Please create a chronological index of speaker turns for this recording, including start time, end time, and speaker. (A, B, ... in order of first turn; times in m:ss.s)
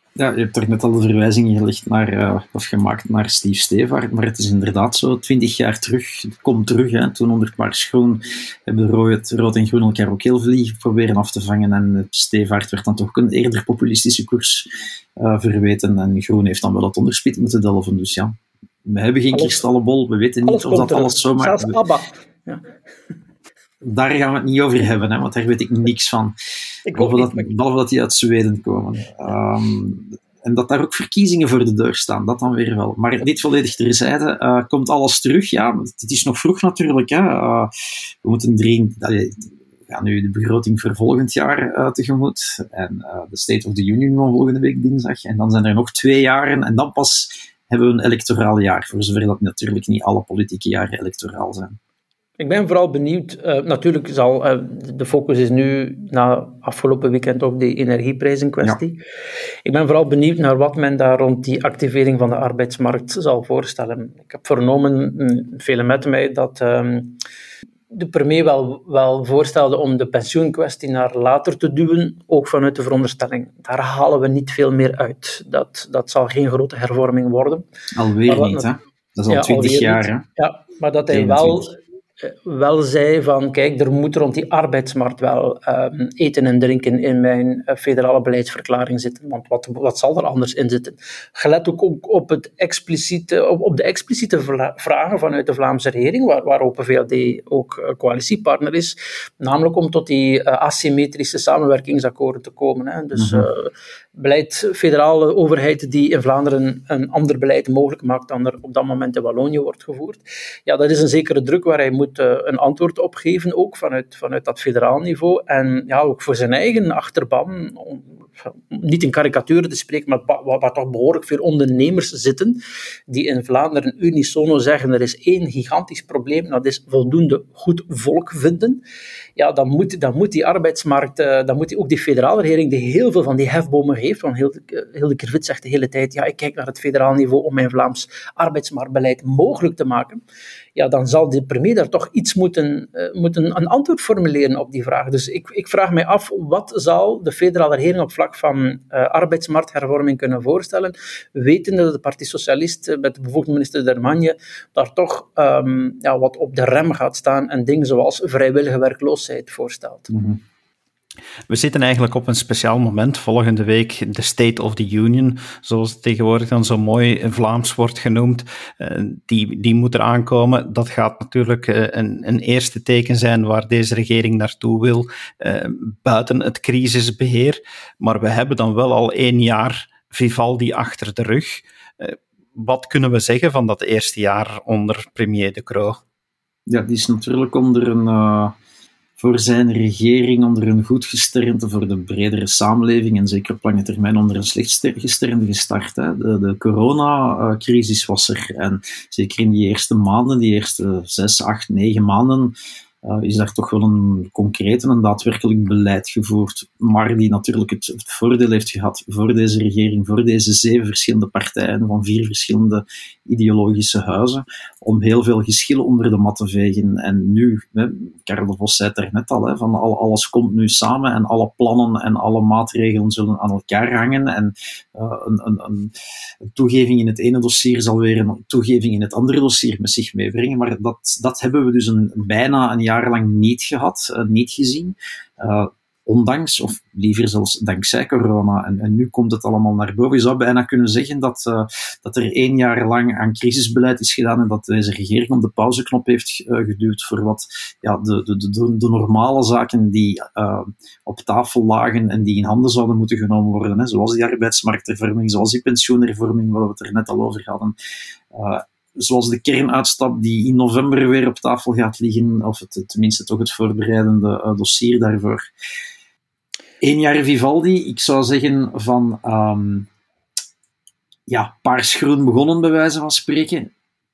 0:00.2-0:18.3 A
0:18.8-0:21.8 A
0:19.3-0:19.6 B
0:20.4-0:22.6 B
0:23.8-0:26.3 A
0:26.9-0:27.5 B
0:26.9-0:37.7 A
0:38.2-0:51.8 A
0:52.4-0:59.0 B
0:59.6-1:07.2 B
1:07.9-1:17.6 B
1:18.0-1:20.2 A
1:18.3-1:18.7 B
1:19.3-2:08.8 B
1:21.1-1:21.7 A
1:43.2-1:43.4 A
2:09.4-2:20.2 B
2:20.8-2:40.1 B
2:40.1-2:40.4 A
2:41.5-3:06.0 C
3:06.7-3:08.5 A
3:09.2-3:45.9 A
3:46.5-4:17.7 A
4:18.3-4:25.4 A
4:26.8-4:29.9 A
4:31.3-4:33.7 A